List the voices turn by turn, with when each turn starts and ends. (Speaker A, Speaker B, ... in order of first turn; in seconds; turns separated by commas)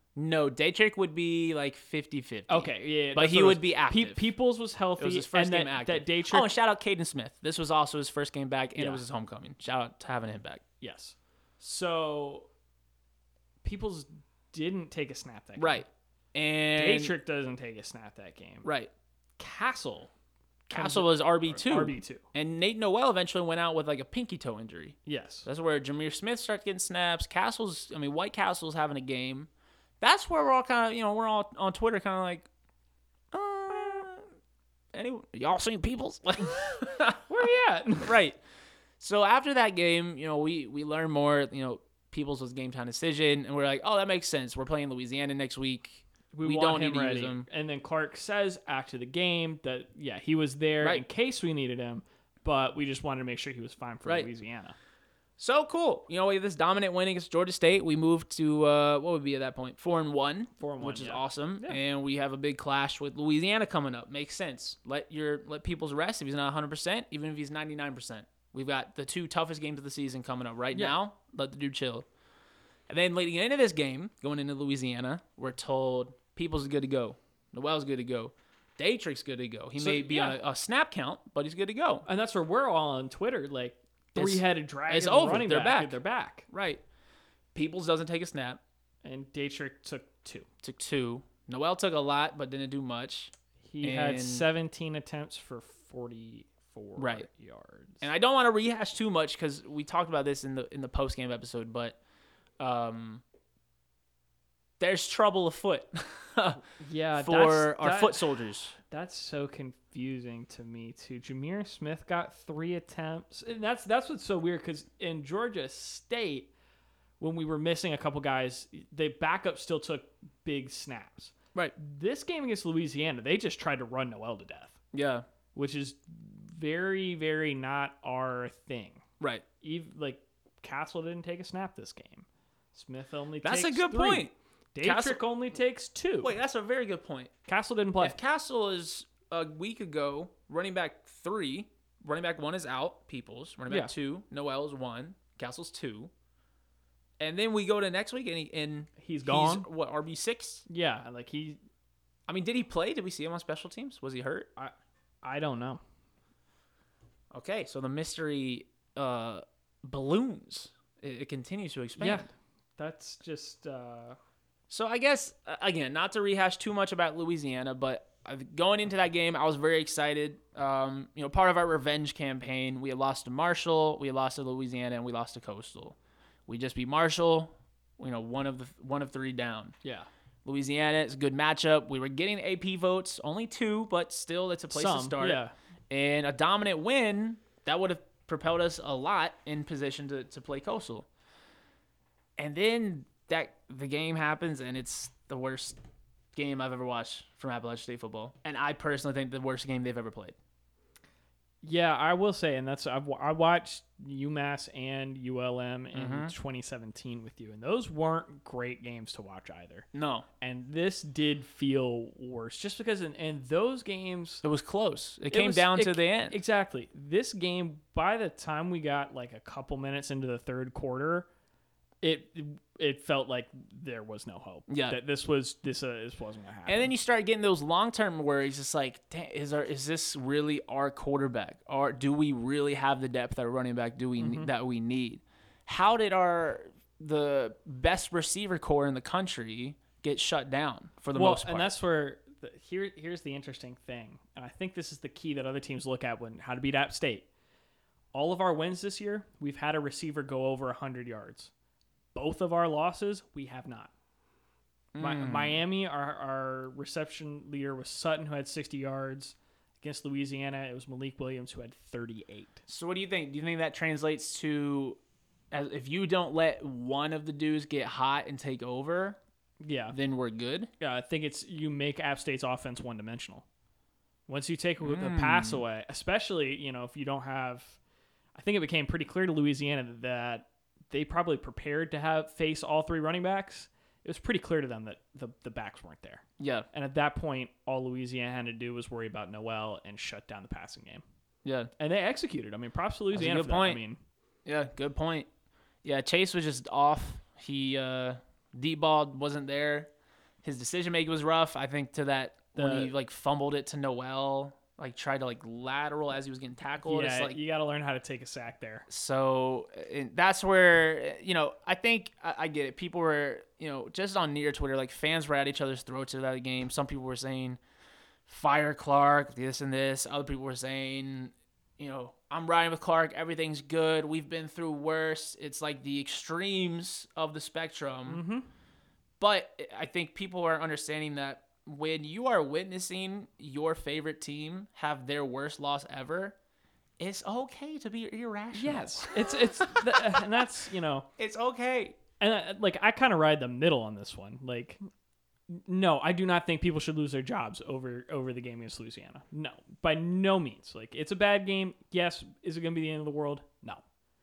Speaker A: 0.2-4.3, Speaker B: 2.5-6.5, Speaker A: 5.0-10.6, Speaker B: 8.8-9.0, Speaker B: 10.8-12.5, Speaker B: 13.6-15.8, Speaker A: 15.6-17.1, Speaker B: 16.8-18.7, Speaker A: 18.6-18.9, Speaker B: 19.4-20.1, Speaker A: 20.7-29.5, Speaker B: 20.7-22.2, Speaker B: 25.1-25.5, Speaker A: 30.0-32.5, Speaker A: 33.3-34.2, Speaker A: 34.9-37.2, Speaker B: 37.3-38.2, Speaker A: 38.0-38.4, Speaker A: 39.0-47.5, Speaker B: 46.3-54.8, Speaker A: 55.4-72.1, Speaker B: 60.6-61.8, Speaker A: 72.9-82.1, Speaker B: 79.8-80.4, Speaker B: 82.1-86.5, Speaker A: 84.2-86.8, Speaker A: 87.5-88.6, Speaker B: 89.0-90.5, Speaker A: 90.6-94.5, Speaker B: 93.6-98.0, Speaker A: 97.0-97.3, Speaker A: 98.0-102.0, Speaker A: 102.6-103.2, Speaker A: 104.8-106.6, Speaker B: 106.8-116.5, Speaker A: 107.2-108.7, Speaker B: 117.2-124.8, Speaker A: 124.9-125.2, Speaker B: 125.5-129.0, Speaker B: 129.6-136.3, Speaker A: 133.4-135.2, Speaker A: 136.2-137.3, Speaker B: 137.5-138.2, Speaker A: 138.0-146.1, Speaker A: 147.2-150.6, Speaker B: 149.0-149.7, Speaker B: 150.7-151.6, Speaker A: 152.3-154.5, Speaker B: 154.6-155.8, Speaker A: 157.3-162.2, Speaker B: 162.0-162.3, Speaker B: 162.8-164.2, Speaker A: 164.7-179.7, Speaker A: 180.4-191.1, Speaker B: 184.7-185.5, Speaker A: 192.4-195.8, Speaker A: 196.3-200.4, Speaker B: 201.6-209.9, Speaker A: 205.9-206.3, Speaker A: 209.9-210.3, Speaker B: 210.4-214.4, Speaker A: 214.4-216.3, Speaker B: 215.3-221.3, Speaker B: 222.0-226.9, Speaker A: 224.7-225.0, Speaker A: 226.7-241.7, Speaker B: 234.2-234.5, Speaker B: 241.1-247.3, Speaker B: 248.1-251.5, Speaker B: 252.2-253.9, Speaker A: 254.9-255.6, Speaker B: 255.0-262.6, Speaker A: 262.7-265.0, Speaker A: 265.5-269.2, Speaker B: 269.6-269.9, Speaker A: 269.9-270.7, Speaker B: 270.8-273.4, Speaker B: 274.3-277.8, Speaker A: 274.8-275.6, Speaker B: 278.4-291.0, Speaker A: 286.4-286.7, Speaker A: 291.4-291.7, Speaker B: 291.8-294.0, Speaker A: 293.1-293.8, Speaker A: 294.4-295.3, Speaker A: 295.8-299.9, Speaker A: 300.4-307.4, Speaker B: 302.6-302.9, Speaker B: 306.9-308.9, Speaker A: 308.9-317.6, Speaker A: 318.3-328.2, Speaker B: 328.1-328.5, Speaker A: 329.2-336.4, Speaker A: 337.0-340.2, Speaker B: 338.6-341.1, Speaker A: 341.2-342.0, Speaker B: 342.2-344.8, Speaker B: 345.5-353.8